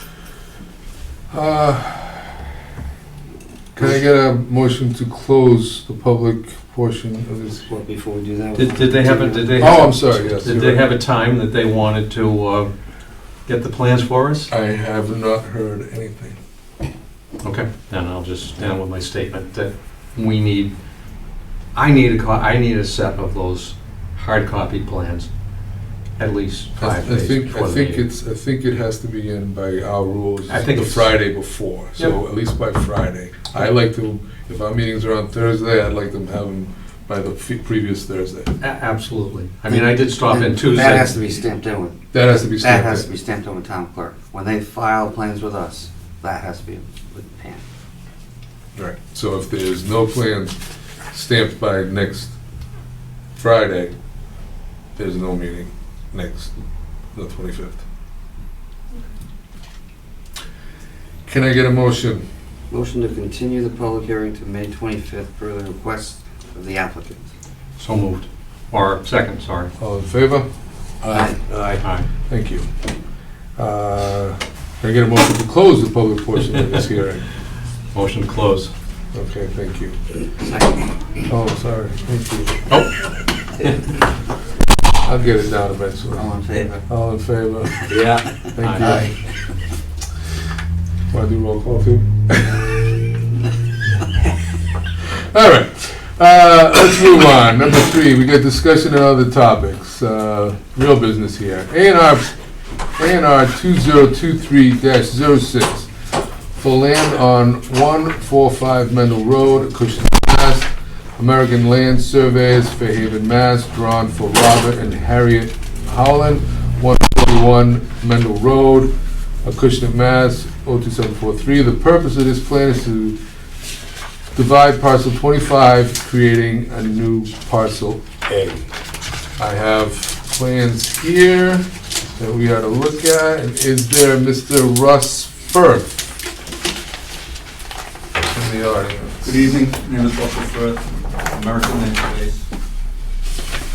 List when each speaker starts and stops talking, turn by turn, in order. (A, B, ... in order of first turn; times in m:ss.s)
0:01.3-0:02.4 A
0:03.8-0:07.8 A
0:07.7-0:10.3 B
0:08.6-0:12.7 C
0:09.6-0:10.9 A
0:13.5-0:14.5 C
0:14.5-0:16.4 A
0:17.4-0:20.7 C
0:21.7-0:25.3 C
0:26.2-0:28.1 C
0:26.8-0:38.5 A
0:30.5-0:31.2 C
0:38.6-0:41.2 C
0:39.7-0:42.0 B
0:42.1-0:43.1 A
0:42.6-0:47.6 B
0:48.8-0:50.6 A
0:51.1-0:52.4 A
0:53.4-0:53.9 A
0:55.0-0:56.5 A
0:57.2-0:57.8 A
1:01.3-1:02.2 A
1:02.7-1:07.2 B
1:07.8-1:09.7 C
1:09.8-1:10.5 A
1:11.0-1:12.7 A
1:11.6-1:12.1 C
1:13.6-1:17.3 A
1:17.9-1:18.7 C
1:19.1-1:20.0 A
1:20.4-1:20.9 B
1:21.3-1:22.6 A
1:25.0-1:27.9 A
1:26.2-1:26.8 B
1:27.9-1:29.1 C
1:28.6-1:29.1 A
1:31.1-1:32.9 A
1:35.2-1:42.4 A
1:43.0-1:45.9 A
1:46.6-1:58.9 A
1:59.4-2:03.2 A
2:04.4-2:08.7 A
2:09.4-2:16.1 A
2:18.3-2:19.4 A
2:19.2-2:22.4 D